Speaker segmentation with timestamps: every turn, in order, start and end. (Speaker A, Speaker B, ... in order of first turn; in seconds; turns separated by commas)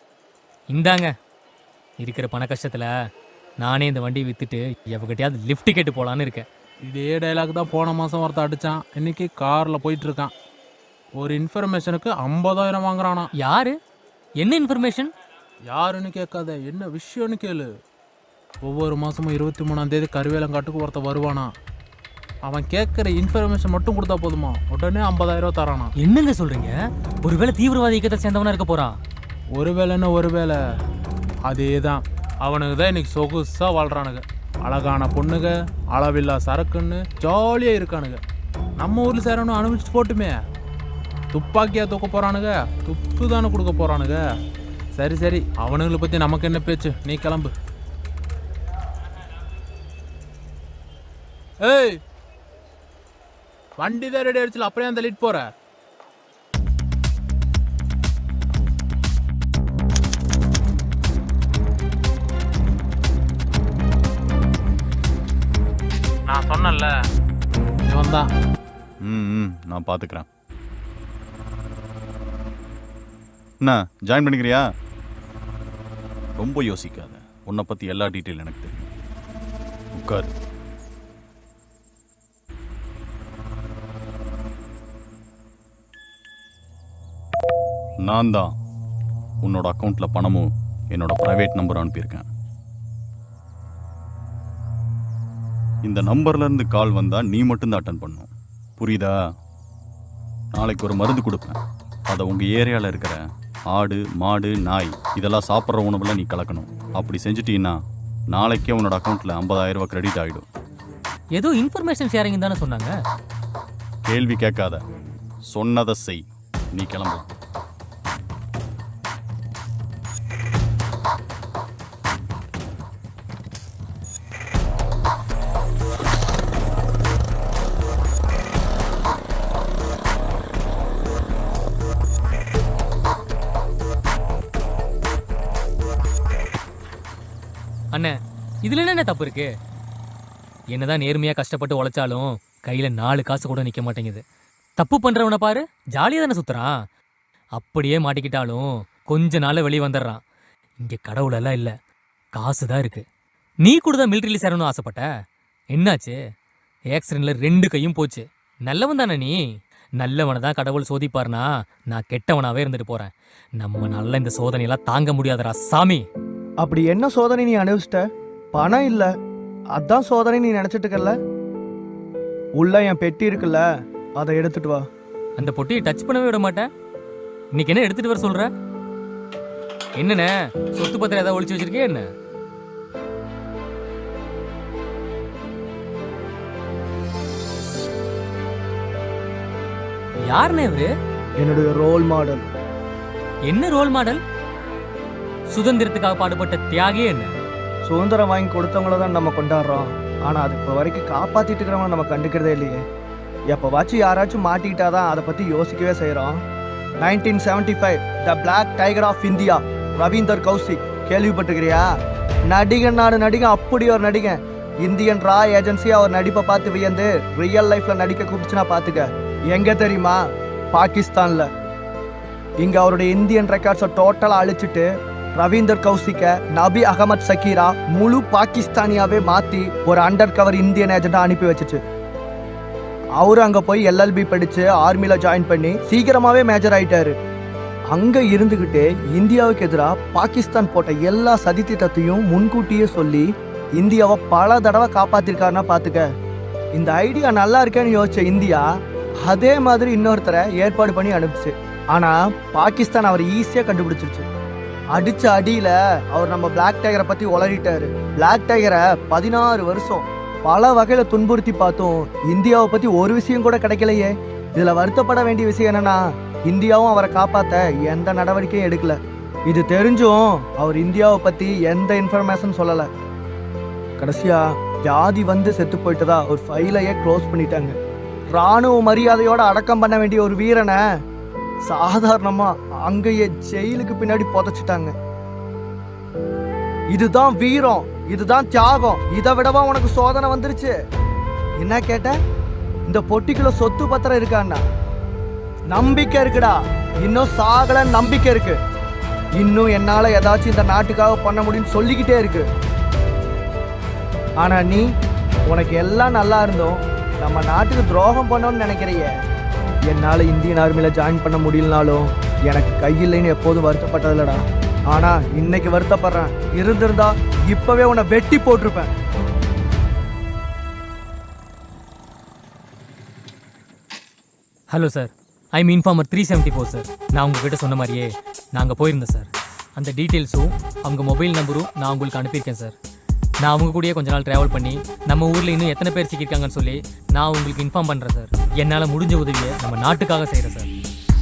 Speaker A: 0.7-1.1, Speaker A: 2.0-2.9, Speaker A: 3.6-6.5, Speaker B: 6.8-10.3, Speaker B: 11.2-13.3, Speaker A: 13.4-13.8, Speaker A: 14.4-15.1, Speaker B: 15.7-17.7, Speaker B: 18.6-21.5, Speaker B: 22.5-25.9, Speaker A: 26.0-29.0, Speaker B: 29.5-30.6, Speaker B: 31.4-38.2, Speaker B: 38.8-40.4, Speaker B: 41.3-44.2, Speaker B: 44.9-47.5, Speaker B: 51.6-52.0, Speaker B: 53.8-55.5, Speaker B: 66.3-66.9, Speaker B: 67.8-68.3, Speaker C: 69.0-70.3, Speaker C: 73.6-74.7, Speaker C: 76.4-78.9, Speaker C: 80.0-80.3, Speaker C: 88.0-88.5, Speaker C: 89.4-92.3, Speaker C: 95.8-99.1, Speaker C: 100.5-103.2, Speaker C: 103.7-107.8, Speaker C: 108.3-110.5, Speaker A: 111.3-112.9, Speaker C: 114.0-114.8, Speaker C: 115.5-116.2, Speaker C: 116.7-117.3, Speaker A: 137.9-139.5, Speaker A: 140.7-144.2, Speaker A: 144.8-146.7, Speaker A: 147.5-150.2, Speaker A: 150.8-151.7, Speaker A: 152.3-153.1, Speaker A: 153.6-155.1, Speaker A: 155.7-156.2, Speaker A: 156.9-159.4, Speaker A: 160.0-166.1, Speaker D: 166.6-169.1, Speaker D: 169.8-171.2, Speaker D: 172.6-173.6, Speaker D: 174.2-174.8, Speaker A: 175.4-176.7, Speaker A: 177.5-178.5, Speaker A: 180.0-182.1, Speaker A: 190.3-190.9, Speaker D: 191.4-192.4, Speaker A: 193.4-194.2, Speaker A: 195.5-197.3, Speaker D: 197.8-202.8, Speaker D: 203.5-206.4, Speaker D: 207.0-211.9, Speaker D: 212.5-220.2, Speaker D: 220.7-221.5, Speaker D: 222.6-231.8, Speaker D: 233.2-237.1, Speaker D: 237.9-243.2, Speaker D: 243.8-246.0, Speaker D: 246.7-248.6, Speaker D: 249.2-254.3, Speaker D: 254.9-272.9, Speaker D: 274.0-277.7, Speaker D: 278.3-280.8, Speaker D: 281.6-284.9, Speaker D: 286.9-290.7, Speaker D: 291.6-292.1, Speaker D: 292.9-294.6, Speaker D: 295.7-298.6, Speaker D: 299.4-302.5, Speaker D: 304.4-304.8, Speaker D: 305.5-309.1, Speaker D: 309.9-318.9, Speaker A: 324.7-332.8, Speaker A: 333.4-340.7